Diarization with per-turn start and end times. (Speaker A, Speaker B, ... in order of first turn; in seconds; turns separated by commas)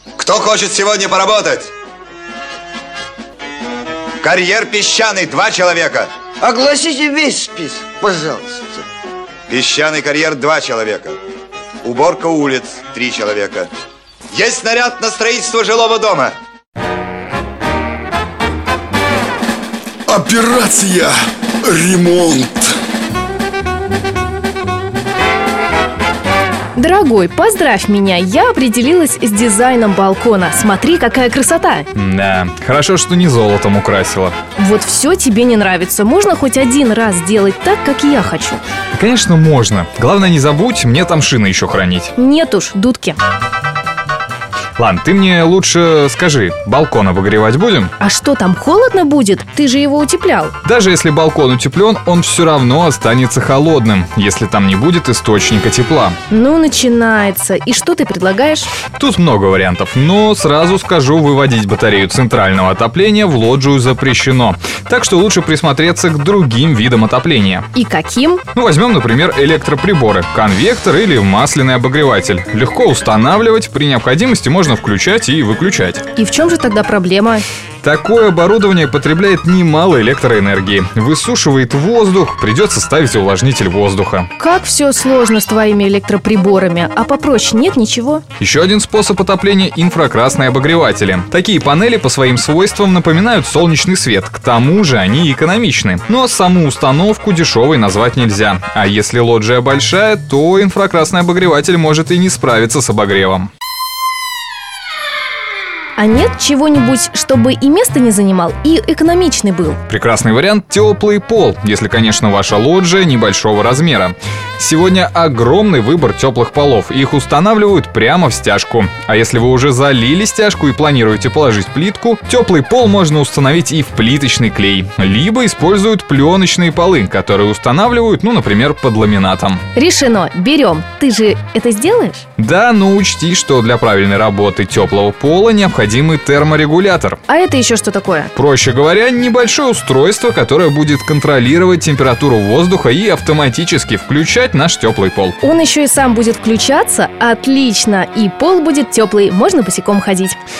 Speaker A: 0.2-1.7, Speaker A: 4.2-6.1, Speaker B: 6.4-8.8, Speaker A: 9.5-11.2, Speaker A: 11.8-13.7, Speaker A: 14.3-16.3, Speaker C: 20.1-22.8, Speaker D: 26.8-31.9, Speaker E: 31.9-34.4, Speaker D: 34.6-38.6, Speaker E: 38.9-42.1, Speaker D: 42.2-43.2, Speaker E: 44.8-47.9, Speaker D: 48.0-50.5, Speaker E: 50.6-56.2, Speaker D: 56.3-58.7, Speaker E: 58.9-67.7, Speaker D: 67.7-68.4, Speaker E: 68.5-76.0, Speaker D: 76.1-77.4, Speaker E: 77.8-84.3, Speaker D: 84.4-88.2, Speaker E: 88.4-103.5, Speaker D: 106.0-109.8, Speaker E: 109.9-129.6, Speaker D: 129.7-132.2, Speaker E: 132.4-137.2, Speaker D: 137.3-138.3, Speaker E: 138.3-145.4, Speaker D: 145.4-150.4